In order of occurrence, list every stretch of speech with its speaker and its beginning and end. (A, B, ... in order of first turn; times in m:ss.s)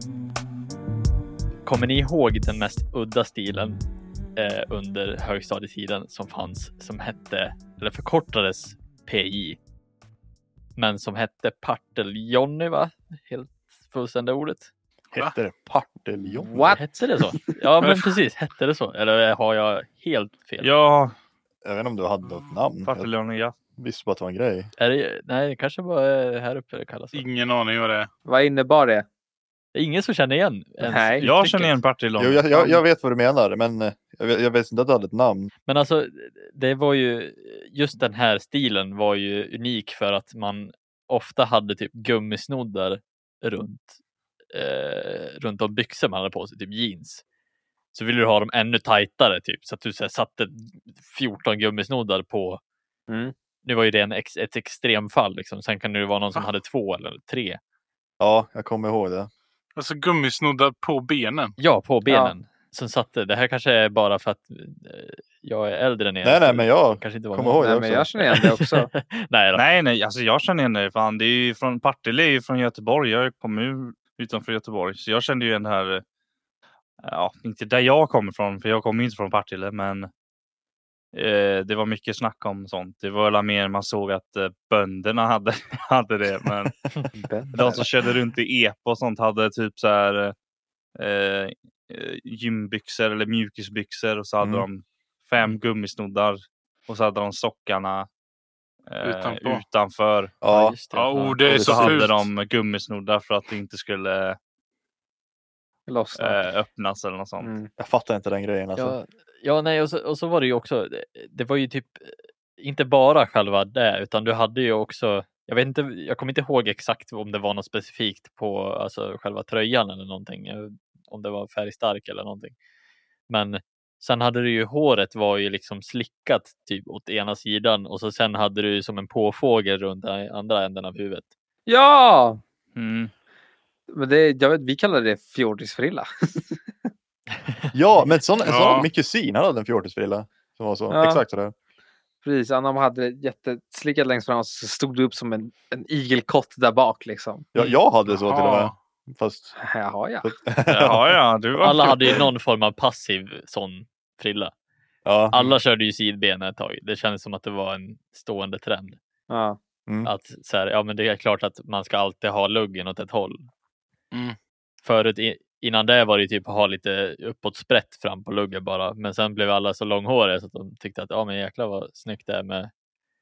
0:01.6-0:03.8 A
0:04.4-0:09.6 A
0:10.8-0:14.7 A
0:15.1-0:16.8 B
0:16.4-0:17.6 C
0:16.8-0:20.7 A
0:17.8-0:18.1 D
0:20.6-0:21.1 E
0:21.6-0:23.1 B
0:22.8-0:23.6 E
0:23.8-0:24.7 B
0:24.8-0:27.2 A
0:27.1-0:28.1 D
0:28.2-0:29.0 C
0:29.7-0:31.7 A
0:30.8-0:31.3 C
0:31.2-0:32.8 E
0:32.2-0:35.5 B
0:35.6-0:44.0 A
0:44.5-0:47.2 A
0:47.9-0:52.6 A
0:53.1-0:53.3 C
0:53.6-0:57.6 A
0:58.2-0:59.3 B
0:59.8-1:01.5 D
1:01.6-1:09.6 A
1:02.1-1:02.3 C
1:06.2-1:08.1 B
1:07.6-1:08.9 C
1:09.5-1:16.0 E
1:17.0-1:20.1 E
1:21.1-1:26.7 E
1:27.2-1:27.8 C
1:27.5-1:30.3 E
1:31.0-1:38.1 E
1:34.4-1:34.7 B
1:38.9-1:40.3 E
1:39.0-1:39.6 D
1:40.4-1:40.8 B
1:40.4-1:41.4 A
1:40.9-1:42.3 D
1:41.4-1:42.0 B
1:41.5-1:44.4 E
1:45.9-1:46.4 C
1:46.1-1:47.5 E
1:47.4-1:47.7 C
1:47.8-1:49.0 B
1:48.8-2:02.5 A
2:03.3-2:11.2 A
2:11.7-2:12.4 C
2:12.8-2:13.1 E
2:13.9-2:16.8 C
2:17.7-2:21.5 B
2:18.4-2:18.9 D
2:20.9-2:21.2 C
2:22.2-2:27.5 C
2:27.5-2:29.5 B
2:28.1-2:28.7 D
2:29.7-2:30.3 C
2:30.2-2:31.2 B
2:30.7-2:32.0 E
2:31.6-2:34.5 A
2:31.7-2:32.2 B
2:35.0-2:35.5 B
2:35.3-2:39.0 A
2:39.3-2:39.6 C
2:39.9-2:40.1 B
2:40.0-2:43.5 A
2:44.8-2:52.7 A